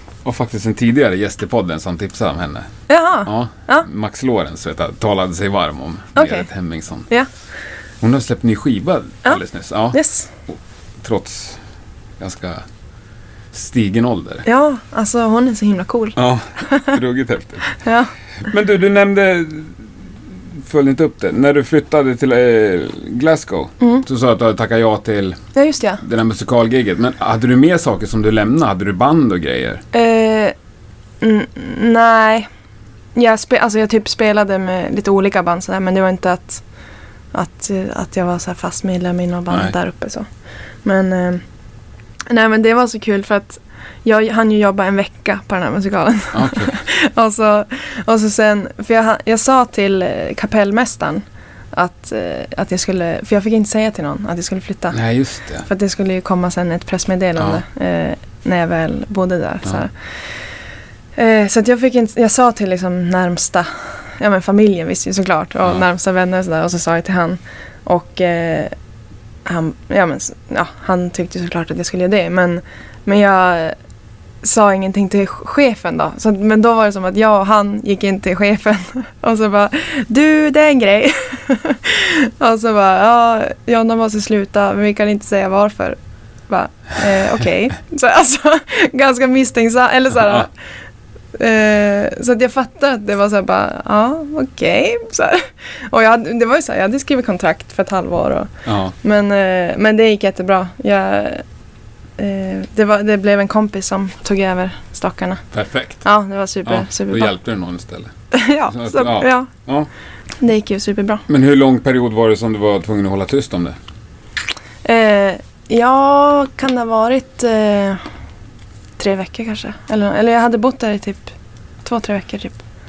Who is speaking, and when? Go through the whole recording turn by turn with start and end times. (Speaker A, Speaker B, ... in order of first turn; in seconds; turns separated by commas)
Speaker A: 0.2-2.7, Speaker B: 2.9-3.9, Speaker A: 3.2-7.1, Speaker B: 6.2-6.5, Speaker A: 8.0-11.6, Speaker B: 9.9-10.3, Speaker A: 12.2-12.6, Speaker A: 13.5-14.4, Speaker B: 14.4-17.0, Speaker A: 16.2-17.6, Speaker B: 17.8-18.1, Speaker A: 18.4-19.8, Speaker A: 20.6-25.4, Speaker B: 25.6-26.0, Speaker A: 26.0-29.8, Speaker B: 29.9-30.5, Speaker B: 31.2-32.5, Speaker B: 33.1-36.6, Speaker B: 37.3-40.3, Speaker B: 40.8-41.4, Speaker B: 42.3-55.0, Speaker A: 46.3-46.8, Speaker A: 54.9-55.7, Speaker B: 55.6-59.9, Speaker B: 61.2-68.7, Speaker B: 69.5-73.8, Speaker B: 74.4-86.0, Speaker B: 86.5-90.5, Speaker A: 90.2-90.5, Speaker B: 91.4-98.5, Speaker A: 98.7-99.0, Speaker B: 99.0-101.4, Speaker B: 102.2-105.4, Speaker A: 105.5-106.0, Speaker B: 106.0-107.3, Speaker A: 106.7-108.1, Speaker B: 108.3-109.5, Speaker A: 108.7-109.9, Speaker B: 110.4-111.2, Speaker A: 111.3-113.8, Speaker B: 114.8-118.0, Speaker B: 119.0-121.3, Speaker B: 121.8-122.6